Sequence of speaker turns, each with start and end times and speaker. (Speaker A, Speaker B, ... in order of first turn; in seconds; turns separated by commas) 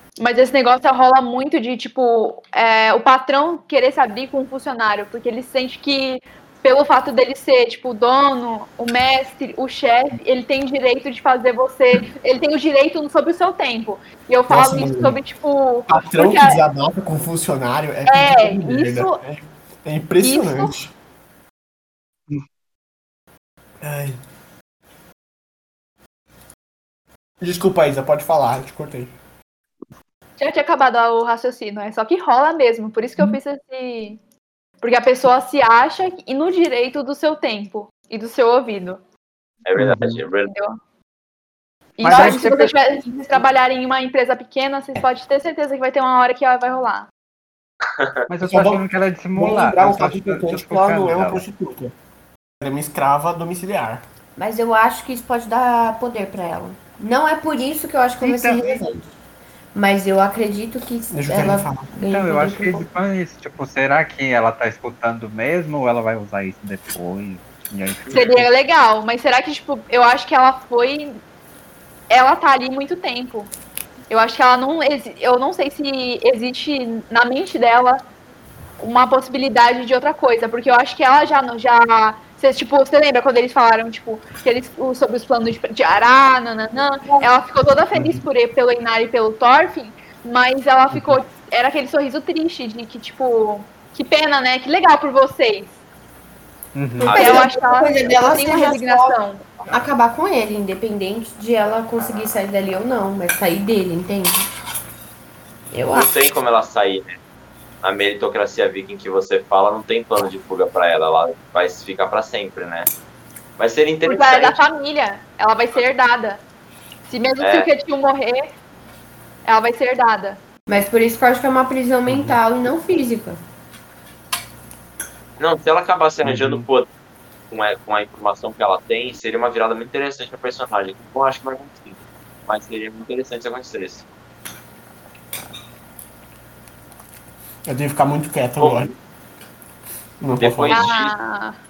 Speaker A: 0.2-16.6, Speaker B: 14.5-15.2, Speaker B: 15.9-20.9, Speaker A: 18.1-19.2, Speaker A: 20.2-20.7, Speaker B: 23.8-24.2, Speaker B: 27.4-29.1, Speaker A: 30.4-34.2, Speaker A: 34.8-39.0, Speaker C: 39.6-40.5, Speaker D: 39.8-40.2, Speaker A: 40.4-40.8, Speaker A: 42.0-47.1, Speaker D: 42.0-42.7, Speaker B: 42.0-42.4, Speaker C: 47.9-48.2, Speaker D: 48.3-51.4, Speaker B: 48.5-51.9, Speaker B: 52.6-54.0, Speaker E: 54.4-59.1, Speaker D: 58.2-58.8, Speaker E: 59.8-62.9, Speaker B: 61.1-61.9, Speaker D: 62.1-68.5, Speaker A: 68.1-71.2, Speaker A: 72.1-73.5, Speaker A: 74.1-78.0, Speaker A: 78.8-95.8, Speaker D: 87.9-88.2, Speaker D: 90.9-91.2, Speaker D: 96.8-97.4, Speaker E: 97.0-104.5, Speaker A: 97.1-99.5, Speaker E: 105.7-106.1, Speaker C: 105.9-107.2, Speaker C: 107.8-112.9, Speaker C: 113.6-114.6, Speaker A: 114.0-116.4, Speaker A: 117.1-118.5, Speaker C: 117.4-117.7, Speaker A: 119.5-120.4, Speaker E: 120.7-123.4, Speaker D: 122.1-122.4, Speaker C: 125.4-126.9, Speaker D: 126.2-126.7, Speaker C: 127.5-134.1, Speaker B: 137.7-138.9, Speaker C: 138.6-138.9, Speaker B: 140.2-140.9, Speaker C: 140.4-141.1, Speaker A: 140.7-141.6